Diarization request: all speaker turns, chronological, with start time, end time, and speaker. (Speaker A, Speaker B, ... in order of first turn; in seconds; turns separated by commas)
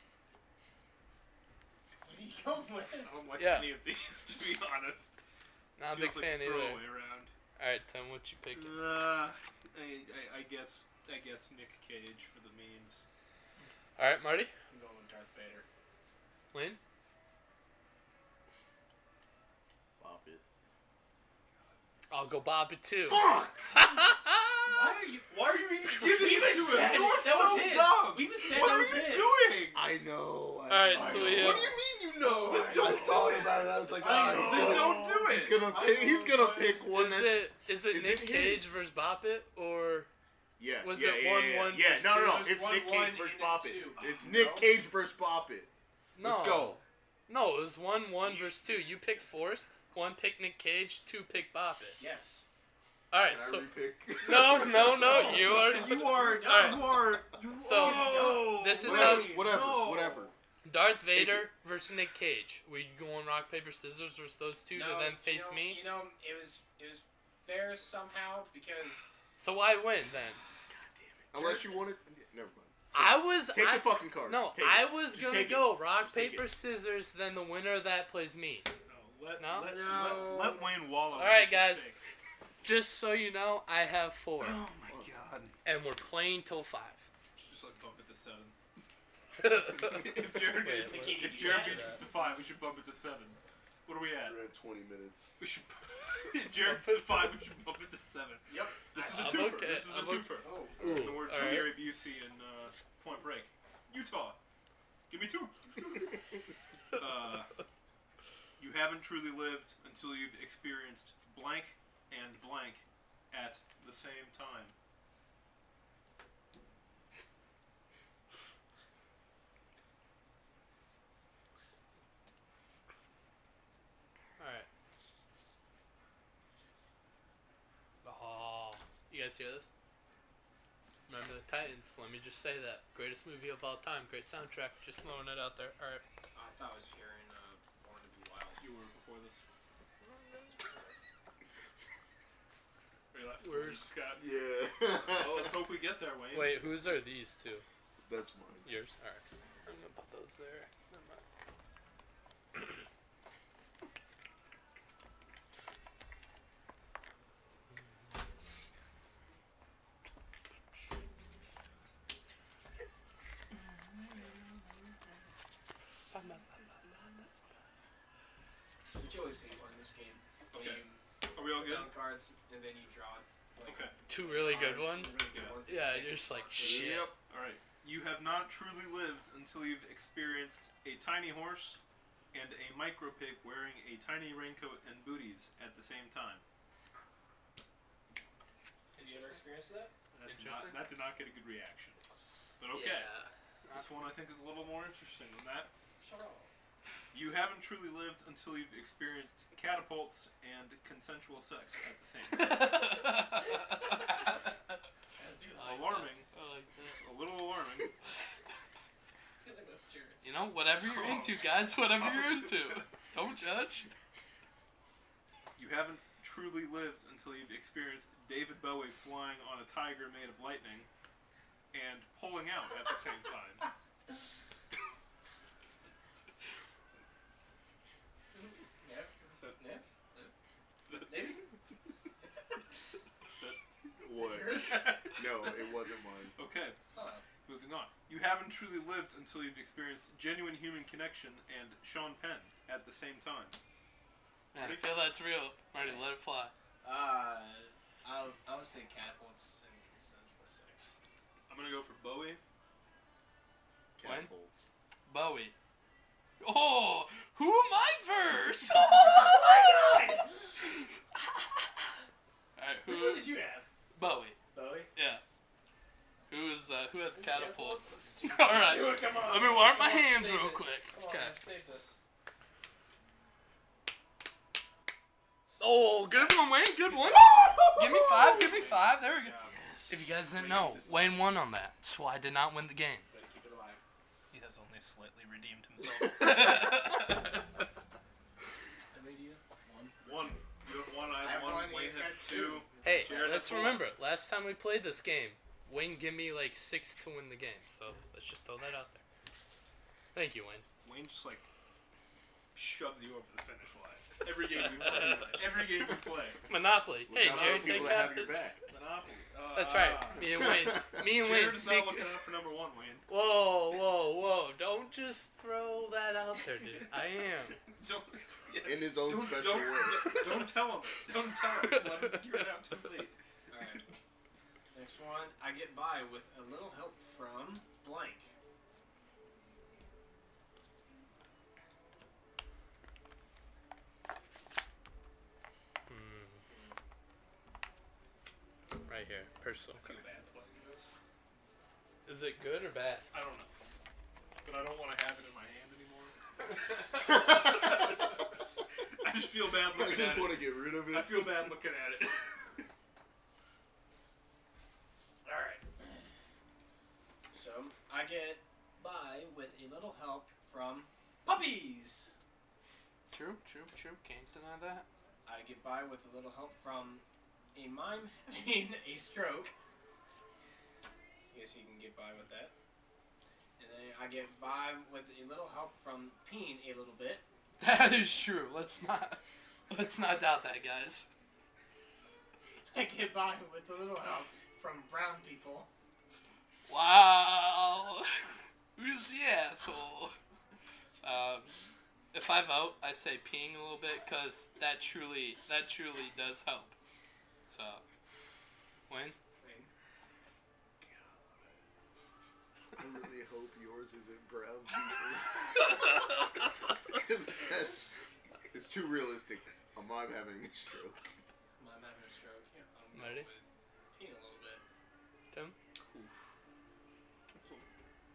Speaker A: 2.0-3.2, Speaker B: 3.0-5.1, Speaker C: 3.4-3.8, Speaker C: 5.8-7.0, Speaker B: 5.8-7.3, Speaker C: 7.6-8.8, Speaker B: 8.5-13.0, Speaker C: 14.0-14.5, Speaker A: 14.7-15.7, Speaker C: 16.5-16.8, Speaker D: 20.0-20.4, Speaker C: 22.1-24.8, Speaker D: 23.1-23.8, Speaker B: 24.7-29.9, Speaker A: 24.8-25.3, Speaker A: 25.9-29.6, Speaker D: 29.7-38.8, Speaker C: 30.7-31.7, Speaker A: 30.9-36.9, Speaker B: 31.2-35.6, Speaker C: 36.9-40.1, Speaker D: 40.6-45.7, Speaker C: 40.8-42.1, Speaker A: 42.0-44.8, Speaker C: 46.1-52.0, Speaker D: 46.2-46.8, Speaker A: 52.0-52.5, Speaker C: 53.1-57.0, Speaker D: 53.2-55.7, Speaker A: 55.0-59.0, Speaker B: 55.3-60.3, Speaker C: 57.6-59.4, Speaker D: 58.8-60.3, Speaker C: 60.6-65.8, Speaker D: 61.1-61.5, Speaker A: 64.7-69.1, Speaker C: 69.4-70.4, Speaker D: 70.7-76.5, Speaker A: 71.3-71.8, Speaker C: 72.9-78.7, Speaker B: 78.8-82.1, Speaker C: 79.4-79.9, Speaker A: 79.6-80.8, Speaker C: 81.1-81.9, Speaker C: 82.6-84.6, Speaker B: 84.4-85.5, Speaker C: 85.7-87.1, Speaker B: 87.4-88.6, Speaker C: 89.4-92.0, Speaker B: 89.4-94.4, Speaker A: 90.7-92.1, Speaker D: 94.2-95.4, Speaker B: 95.4-104.4, Speaker C: 96.5-97.4, Speaker A: 98.5-99.5, Speaker C: 99.0-101.8, Speaker A: 100.4-101.1, Speaker B: 105.1-106.2, Speaker B: 106.9-107.5, Speaker B: 108.6-114.7, Speaker C: 124.4-124.7, Speaker C: 128.0-129.7, Speaker C: 131.1-136.0, Speaker A: 136.3-138.6, Speaker B: 138.6-139.4, Speaker A: 140.5-141.0, Speaker B: 143.1-144.2, Speaker C: 143.4-143.9, Speaker D: 144.2-145.6, Speaker B: 145.0-146.8, Speaker C: 146.3-147.7, Speaker D: 148.1-148.7, Speaker C: 148.7-151.2, Speaker C: 166.1-167.3, Speaker A: 168.9-177.1, Speaker B: 170.5-172.0, Speaker B: 173.6-173.9, Speaker C: 174.1-177.1, Speaker B: 175.3-175.6, Speaker D: 176.6-177.2, Speaker B: 177.1-181.8, Speaker B: 182.3-186.4, Speaker C: 188.9-189.4, Speaker A: 189.0-189.9, Speaker B: 190.1-192.0, Speaker C: 190.2-190.8, Speaker B: 192.6-193.1, Speaker C: 192.7-193.9, Speaker B: 193.7-195.7, Speaker A: 196.0-196.5, Speaker B: 197.1-202.9, Speaker C: 202.3-204.5, Speaker A: 205.2-206.0, Speaker B: 205.6-206.3, Speaker C: 205.6-207.0, Speaker B: 206.9-207.9, Speaker A: 209.4-210.4, Speaker C: 210.2-213.9, Speaker B: 210.8-212.9, Speaker B: 215.6-220.9, Speaker B: 221.7-223.7, Speaker A: 228.3-230.3, Speaker B: 230.9-231.4, Speaker A: 230.9-231.5, Speaker B: 233.3-233.6, Speaker D: 234.0-236.4, Speaker A: 234.1-235.3, Speaker B: 234.6-235.8, Speaker B: 236.4-236.8, Speaker A: 236.9-237.3, Speaker B: 237.4-243.6, Speaker C: 244.5-246.5, Speaker B: 244.5-245.0, Speaker A: 246.8-250.9, Speaker B: 251.5-252.4, Speaker D: 254.0-254.7, Speaker C: 254.0-254.3, Speaker C: 255.1-255.5, Speaker C: 256.4-259.5, Speaker A: 258.8-260.6, Speaker C: 262.6-263.4, Speaker A: 262.9-263.7, Speaker C: 263.9-264.4, Speaker A: 264.5-264.9, Speaker C: 264.9-265.2, Speaker C: 266.3-271.4, Speaker A: 267.1-272.0, Speaker C: 275.6-279.4, Speaker A: 276.1-276.5, Speaker B: 277.2-277.5, Speaker D: 277.4-278.3, Speaker A: 278.2-279.6, Speaker D: 279.5-280.2, Speaker C: 279.9-283.1, Speaker A: 280.3-281.3, Speaker A: 283.1-283.8, Speaker B: 284.3-286.8, Speaker C: 286.0-287.4, Speaker A: 288.9-290.4, Speaker B: 290.1-293.9, Speaker A: 291.1-293.4, Speaker C: 292.8-299.0, Speaker C: 300.1-300.6, Speaker B: 300.8-301.5, Speaker B: 302.5-306.4, Speaker C: 304.5-305.8, Speaker C: 306.5-308.5, Speaker D: 307.1-308.6, Speaker B: 307.2-308.1, Speaker B: 308.7-313.1, Speaker C: 309.5-312.1, Speaker D: 310.4-311.0, Speaker C: 313.1-317.6, Speaker B: 317.7-323.2, Speaker D: 318.6-320.5, Speaker C: 321.6-322.2, Speaker A: 323.5-324.0, Speaker A: 324.7-328.3, Speaker C: 335.9-336.4, Speaker A: 336.5-336.8, Speaker C: 338.9-340.0, Speaker B: 339.8-340.9, Speaker C: 342.1-343.1, Speaker B: 343.1-343.5, Speaker B: 344.4-348.1, Speaker D: 347.1-347.4, Speaker B: 349.0-352.6, Speaker D: 349.6-351.6, Speaker A: 355.2-356.1, Speaker A: 357.3-362.1, Speaker C: 363.1-364.9, Speaker A: 365.2-369.5, Speaker A: 371.3-372.5, Speaker A: 373.6-377.2, Speaker C: 377.6-381.1, Speaker A: 382.7-385.7, Speaker C: 386.7-390.2, Speaker A: 390.9-391.6, Speaker C: 391.0-391.6, Speaker C: 392.1-396.8, Speaker C: 397.5-397.8, Speaker C: 398.9-399.2, Speaker A: 399.4-399.7, Speaker D: 400.8-401.5, Speaker D: 402.8-406.2, Speaker D: 406.9-407.9, Speaker D: 408.5-411.1, Speaker A: 411.6-414.6, Speaker C: 412.9-413.3, Speaker B: 415.9-416.1, Speaker B: 417.4-417.7